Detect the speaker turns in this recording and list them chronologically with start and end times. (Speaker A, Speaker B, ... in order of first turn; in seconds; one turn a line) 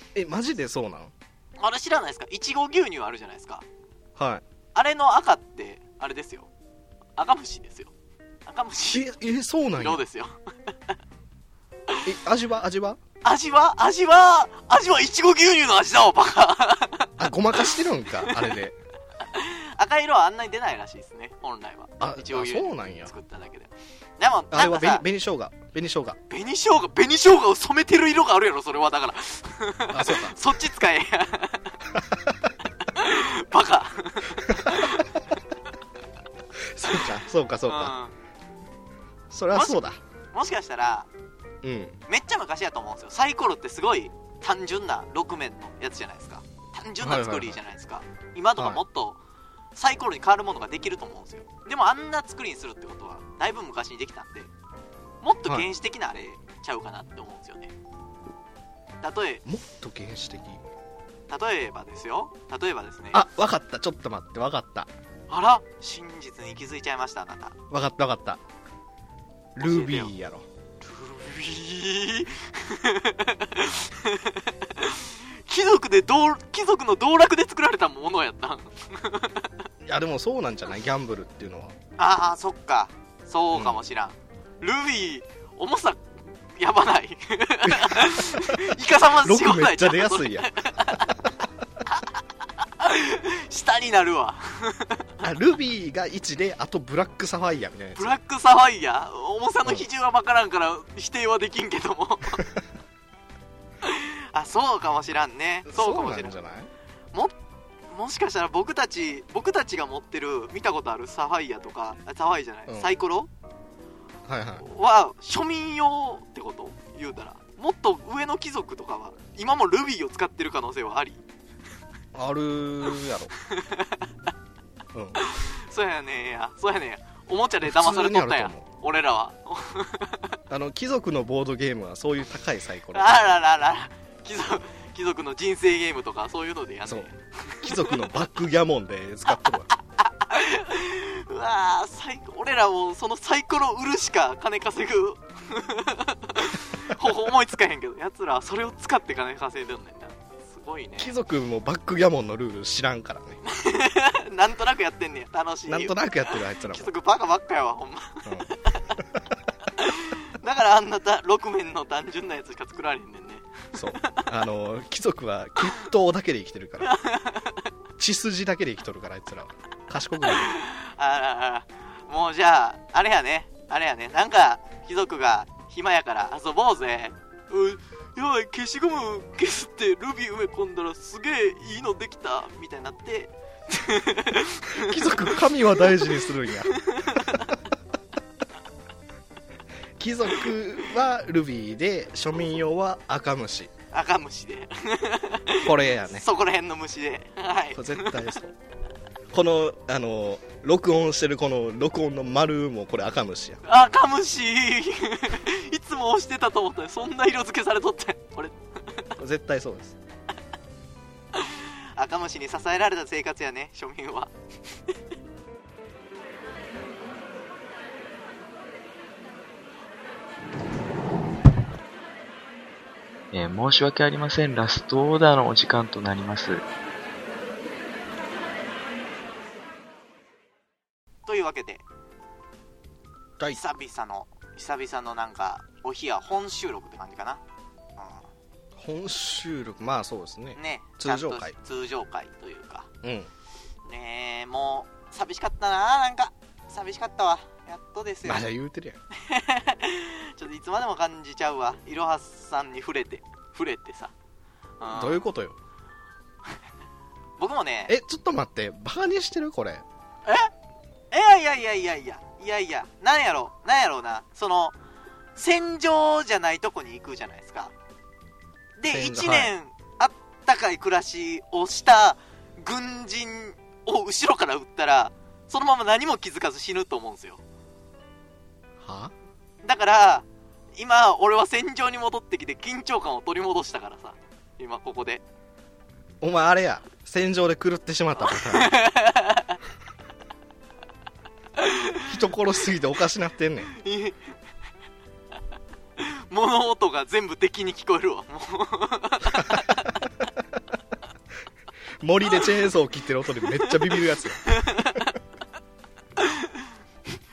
Speaker A: 0.1-1.1
Speaker B: 1.6-3.6
Speaker A: 4.2-4.4
Speaker B: 4.7-6.5
Speaker B: 7.2-7.9
Speaker B: 8.4-9.1
Speaker A: 8.9-10.0
Speaker B: 9.8-10.3
Speaker A: 12.0-13.0
Speaker B: 13.2-18.6
Speaker A: 17.2-18.8
Speaker B: 19.2-25.0
Speaker A: 22.0-23.1
Speaker A: 24.5-26.2
Speaker B: 26.3-31.8
Speaker A: 29.9-30.4
Speaker B: 32.8-35.2
Speaker A: 36.6-37.9
Speaker B: 37.6-38.1
Speaker A: 39.3-40.0
Speaker B: 39.5-39.8
Speaker B: 40.3-41.1
Speaker A: 41.6-42.0
Speaker B: 42.1-49.2
Speaker A: 47.0-47.6
Speaker A: 48.6-48.8
Speaker B: 49.7-54.5
Speaker B: 55.2-57.7
Speaker B: 59.0-59.4
Speaker A: 59.4-60.6
Speaker B: 61.3-63.2
Speaker A: 63.1-64.9
Speaker B: 65.3-67.5
Speaker A: 67.7-68.4
Speaker A: 69.5-70.5
Speaker B: 69.6-70.1
Speaker B: 70.8-79.7
Speaker A: 79.8-81.7
Speaker B: 82.0-86.0
Speaker A: 83.5-83.8
Speaker B: 86.5-91.2
Speaker A: 87.7-91.0
Speaker B: 91.8-92.1
Speaker B: 92.8-95.2
Speaker A: 95.2-98.1
Speaker B: 98.0-102.5
Speaker B: 103.8-106.3
Speaker A: 105.7-106.7
Speaker B: 107.9-113.3
Speaker A: 114.3-114.6
Speaker B: 114.6-121.2
Speaker A: 122.1-123.3
Speaker B: 123.4-124.1
Speaker A: 124.9-125.2
Speaker B: 125.2-130.3
Speaker A: 127.6-128.7
Speaker A: 130.5-133.2
Speaker B: 132.9-138.0
Speaker A: 136.8-139.7
Speaker B: 139.3-151.1
Speaker A: 151.0-153.4
Speaker B: 153.4-156.0
Speaker A: 155.7-156.9
Speaker B: 156.6-158.9
Speaker A: 158.2-159.2
Speaker B: 159.8-164.3
Speaker A: 163.7-166.9
Speaker B: 166.8-167.6
Speaker A: 168.0-170.5
Speaker B: 170.2-187.5
Speaker A: 184.7-187.5
Speaker A: 190.0-193.7
Speaker B: 193.9-198.3
Speaker A: 195.6-196.2
Speaker A: 197.7-198.5
Speaker A: 199.3-203.6
Speaker B: 203.6-209.0
Speaker A: 209.2-209.9
Speaker B: 211.3-214.3
Speaker C: 223.3-226.6
Speaker B: 231.2-231.8
Speaker B: 233.5-237.4
Speaker B: 238.0-238.3
Speaker A: 238.8-241.5
Speaker B: 240.5-242.9
Speaker A: 243.0-243.3
Speaker B: 243.8-248.5
Speaker A: 248.2-249.0
Speaker B: 249.1-254.1
Speaker B: 254.8-255.2
Speaker A: 254.9-255.6
Speaker B: 257.4-257.9
Speaker A: 257.9-259.8
Speaker B: 260.2-260.5
Speaker B: 261.1-264.8
Speaker B: 265.4-267.7
Speaker B: 268.8-277.4
Speaker A: 268.9-269.5
Speaker A: 278.8-279.1
Speaker B: 279.6-285.2
Speaker A: 286.2-288.8
Speaker B: 288.2-289.6
Speaker B: 291.6-292.1
Speaker A: 292.0-293.7
Speaker B: 293.7-294.2
Speaker B: 296.0-300.0
Speaker A: 302.0-305.0
Speaker B: 303.4-305.1
Speaker B: 306.2-306.7